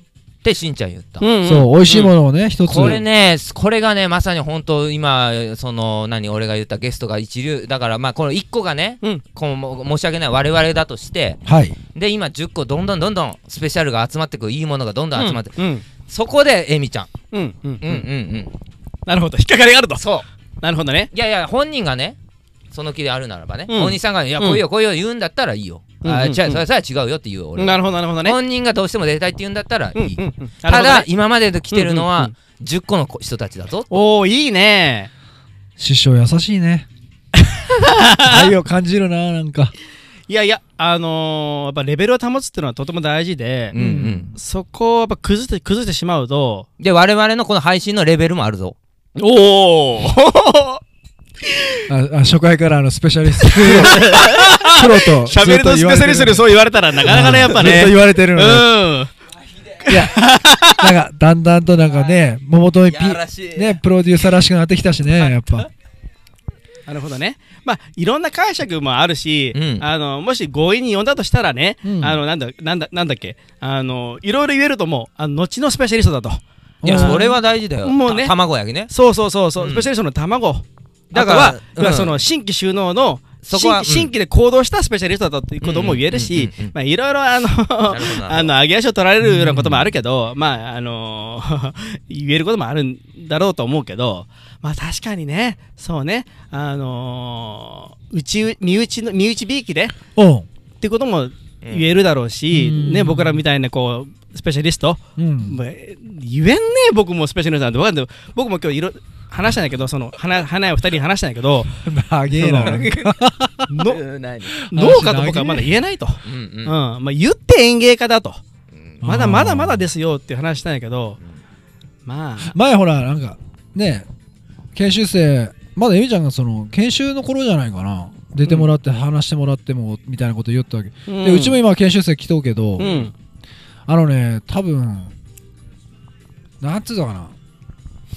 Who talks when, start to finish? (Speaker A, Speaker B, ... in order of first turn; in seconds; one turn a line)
Speaker A: 0.4-1.3
Speaker B: 1.2-1.7
Speaker C: 1.4-3.0
Speaker A: 2.6-11.4
Speaker C: 11.4-11.8
Speaker A: 11.9-17.1
Speaker B: 15.2-15.8
Speaker B: 17.3-18.0
Speaker A: 17.8-18.5
Speaker B: 19.1-20.1
Speaker A: 20.0-20.3
Speaker B: 20.6-21.1
Speaker A: 21.1-22.2
Speaker A: 22.7-33.9
Speaker B: 23.7-24.6
Speaker B: 26.0-26.6
Speaker B: 27.6-28.4
Speaker B: 29.9-31.1
Speaker B: 31.7-32.3
Speaker B: 33.9-35.1
Speaker C: 35.8-36.9
Speaker B: 37.5-38.5
Speaker C: 38.2-39.7
Speaker B: 40.3-43.8
Speaker A: 43.7-44.3
Speaker C: 43.8-44.3
Speaker B: 44.3-46.7
Speaker A: 46.8-48.7
Speaker B: 49.1-50.8
Speaker B: 51.4-51.9
Speaker C: 51.9-58.7
Speaker B: 53.4-59.1
Speaker B: 59.8-60.9
Speaker C: 59.9-65.7
Speaker A: 62.9-63.8
Speaker B: 66.9-78.3
Speaker A: 69.5-69.8
Speaker C: 71.8-72.2
Speaker C: 76.8-77.3
Speaker A: 76.8-78.9
Speaker B: 78.9-99.9
Speaker A: 79.6-79.9
Speaker A: 81.1-82.2
Speaker A: 83.4-84.1
Speaker A: 85.6-86.7
Speaker A: 87.9-88.5
Speaker C: 89.2-89.9
Speaker C: 100.2-100.5
Speaker B: 100.8-111.8
Speaker A: 101.6-101.9
Speaker C: 102.5-103.4
Speaker C: 105.2-105.6
Speaker C: 111.8-113.7
Speaker B: 112.3-112.9
Speaker A: 112.4-113.1
Speaker B: 113.7-114.0
Speaker A: 113.8-114.6
Speaker C: 114.5-115.7
Speaker B: 114.7-118.4
Speaker A: 116.2-116.8
Speaker A: 118.7-119.0
Speaker C: 119.0-119.8
Speaker B: 119.0-121.2
Speaker B: 122.0-122.5
Speaker C: 122.4-124.0
Speaker C: 124.7-132.9
Speaker B: 128.4-128.7
Speaker B: 131.1-131.6
Speaker B: 132.8-133.1
Speaker A: 132.8-133.1
Speaker C: 133.9-135.1
Speaker C: 136.6-137.3